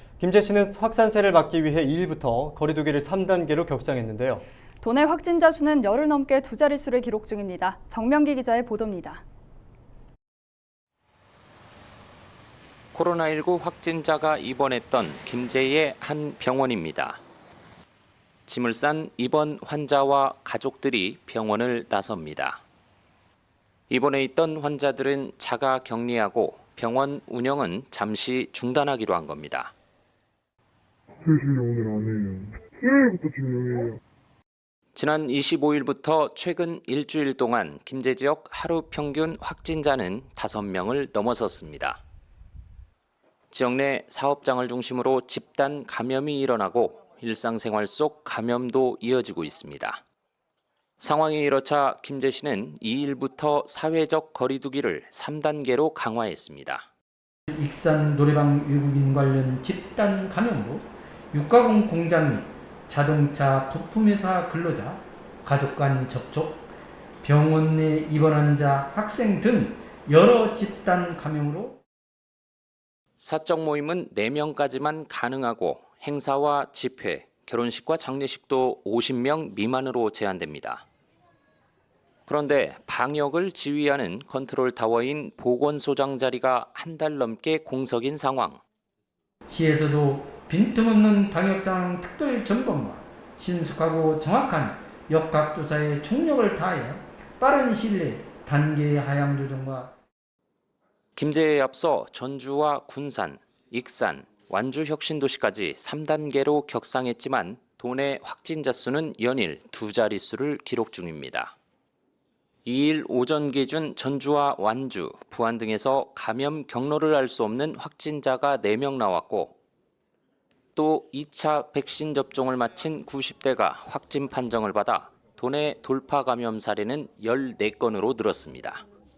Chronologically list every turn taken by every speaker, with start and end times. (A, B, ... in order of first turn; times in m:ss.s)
0:00.2-0:04.4 A
0:04.8-0:09.2 B
0:12.9-0:17.2 C
0:18.5-0:22.6 C
0:23.9-0:29.7 C
0:31.2-0:34.0 D
0:34.9-0:42.0 C
0:43.5-0:50.0 C
0:51.0-0:56.8 C
0:57.5-1:06.6 E
1:07.2-1:11.8 E
1:13.2-1:20.8 C
1:22.3-1:28.6 C
1:29.5-1:39.9 E
1:41.2-1:51.5 C
1:52.6-1:59.6 C
2:00.8-2:08.8 C